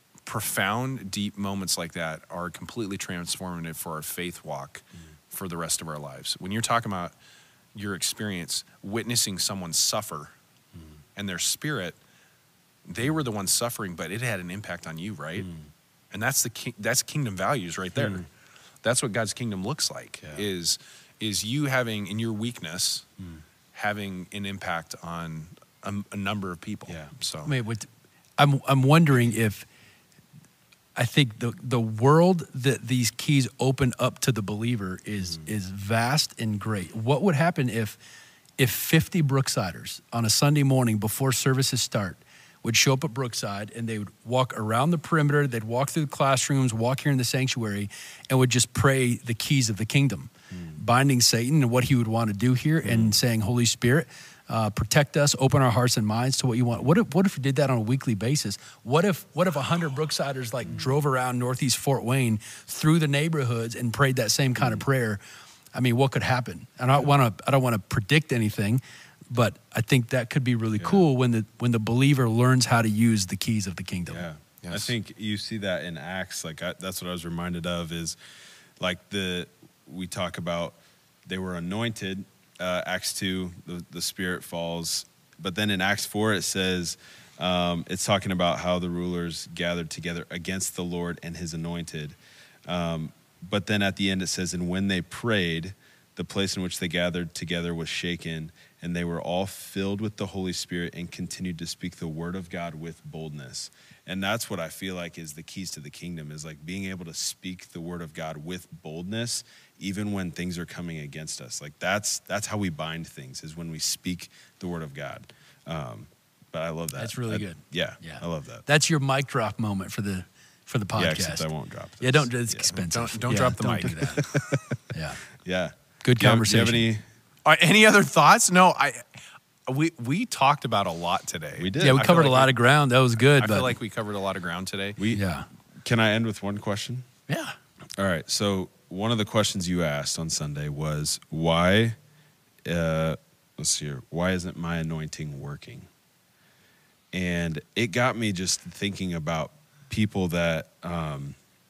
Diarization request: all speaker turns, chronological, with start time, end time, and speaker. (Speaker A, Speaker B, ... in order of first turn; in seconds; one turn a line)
Speaker A: 0.2-7.1
Speaker A: 7.7-10.3
Speaker A: 11.2-12.0
Speaker A: 12.9-15.5
Speaker B: 15.4-15.7
Speaker A: 16.1-18.3
Speaker B: 17.9-18.2
Speaker A: 18.8-23.1
Speaker A: 23.7-27.5
Speaker B: 26.9-27.1
Speaker C: 27.4-29.6
Speaker C: 30.9-38.0
Speaker C: 38.6-65.2
Speaker B: 52.8-53.1
Speaker C: 65.7-74.2
Speaker B: 70.8-71.0
Speaker B: 74.1-78.2
Speaker A: 74.6-74.9
Speaker B: 78.8-118.6
Speaker C: 117.0-121.5
Speaker B: 121.0-122.8
Speaker C: 122.0-124.2
Speaker A: 122.8-124.6
Speaker B: 124.2-124.6
Speaker C: 124.9-125.2
Speaker B: 125.4-127.0
Speaker C: 126.0-126.8
Speaker A: 127.4-132.5
Speaker B: 131.5-132.1
Speaker C: 131.8-133.7
Speaker A: 133.4-135.0
Speaker B: 135.0-135.2
Speaker C: 135.1-135.5
Speaker B: 135.8-137.1
Speaker C: 137.3-137.6
Speaker B: 138.0-141.9
Speaker B: 142.6-145.9
Speaker B: 147.1-151.4